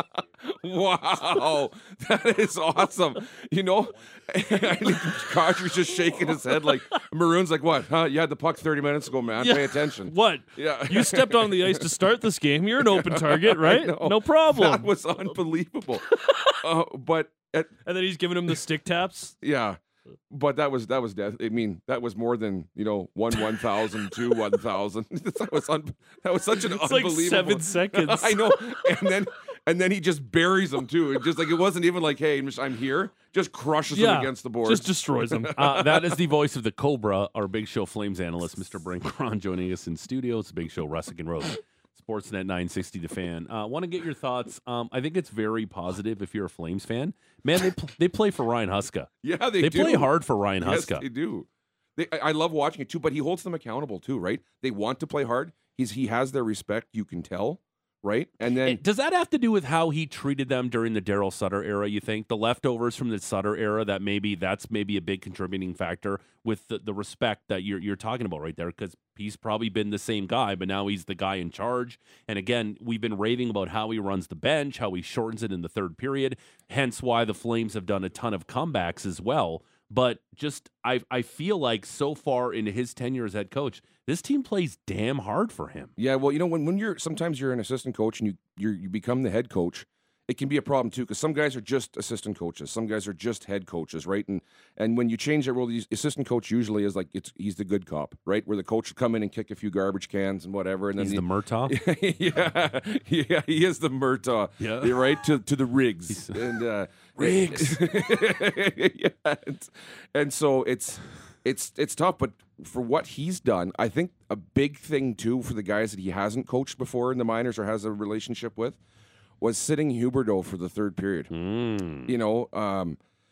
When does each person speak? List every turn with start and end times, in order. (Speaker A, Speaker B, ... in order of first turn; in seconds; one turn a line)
Speaker A: 0.5-12.0
Speaker B: 9.4-14.9
Speaker A: 12.8-17.7
Speaker B: 17.9-19.3
Speaker A: 19.4-19.8
Speaker A: 20.3-36.0
Speaker B: 26.6-28.8
Speaker B: 33.9-35.5
Speaker C: 35.5-49.1
Speaker A: 49.2-58.8
Speaker C: 49.6-51.0
Speaker C: 58.5-85.9
Speaker A: 86.0-118.8
Speaker C: 101.0-101.8
Speaker C: 104.6-105.1
Speaker C: 106.1-106.5
Speaker C: 107.2-107.8
Speaker A: 119.4-121.3
Speaker C: 121.3-122.1
Speaker A: 122.0-123.0